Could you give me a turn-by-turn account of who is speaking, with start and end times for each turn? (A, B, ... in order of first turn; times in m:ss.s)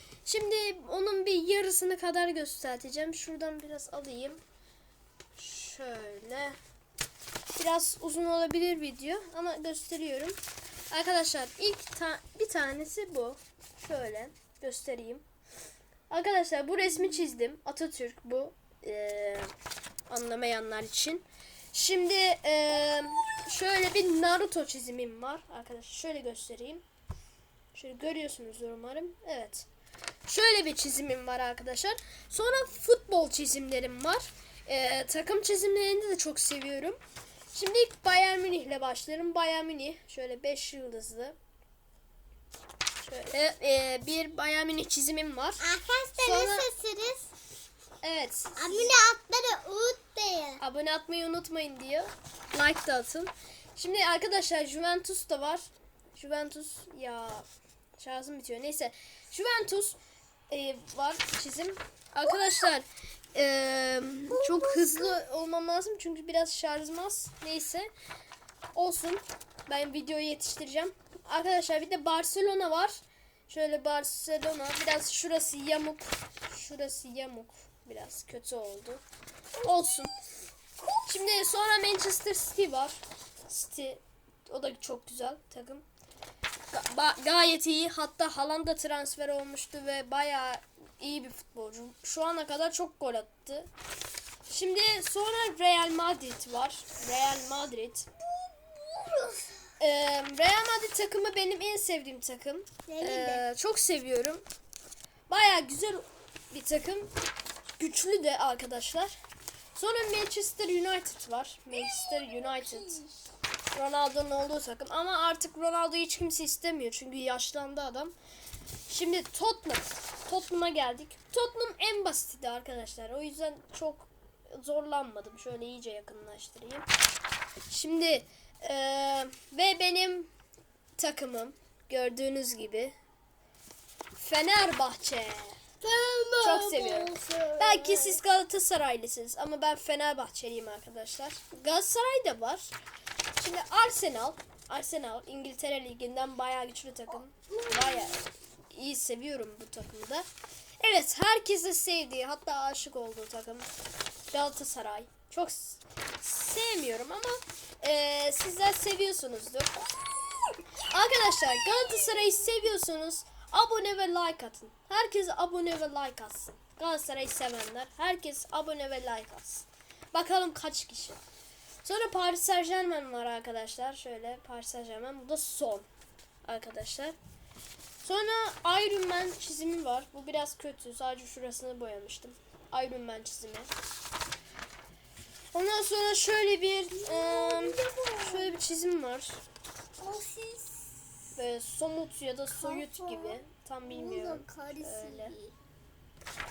0:00.2-0:04.4 A
0:05.4-0:06.6 A
0:07.5-0:10.4 A
0:10.9-0:15.2 A
0:16.1-0:19.5 A
0:20.1-0:26.8 A
0:27.7-0:29.7 A
0:30.2-0:37.0 A
0:37.5-0:41.4 A
0:43.0-0:45.6 A
0:45.6-0:47.3 B
0:46.2-0:46.7 A
0:48.0-0:49.0 A
0:48.6-0:50.6 B
0:50.6-0:57.4 A
0:58.0-1:07.9 A
1:04.4-1:05.1 B
1:08.7-1:19.0 A
1:19.6-1:20.1 A
1:21.0-1:25.8 A
1:26.7-1:33.7 A
1:34.5-1:38.1 A
1:38.4-1:39.6 B
1:39.8-1:44.4 A
1:42.9-1:43.4 B
1:45.3-1:47.1 A
1:47.8-1:49.2 A
1:49.7-1:53.0 A
1:51.9-1:53.1 B
1:53.7-1:58.2 A
1:58.9-2:06.9 A
2:07.7-2:10.3 A
2:11.0-2:12.9 A
2:14.2-2:15.6 A
2:15.8-2:18.2 B
2:16.4-2:22.7 A
2:23.4-2:30.2 A
2:27.5-2:28.2 B
2:30.8-2:33.7 A
2:34.3-2:39.9 A
2:40.8-2:51.2 A
2:51.8-2:55.9 A
2:56.4-2:57.2 A
2:58.0-3:03.7 A
3:05.5-3:09.4 A
3:06.9-3:08.6 B
3:10.0-3:11.2 B
3:11.4-3:15.3 A
3:12.5-3:15.6 B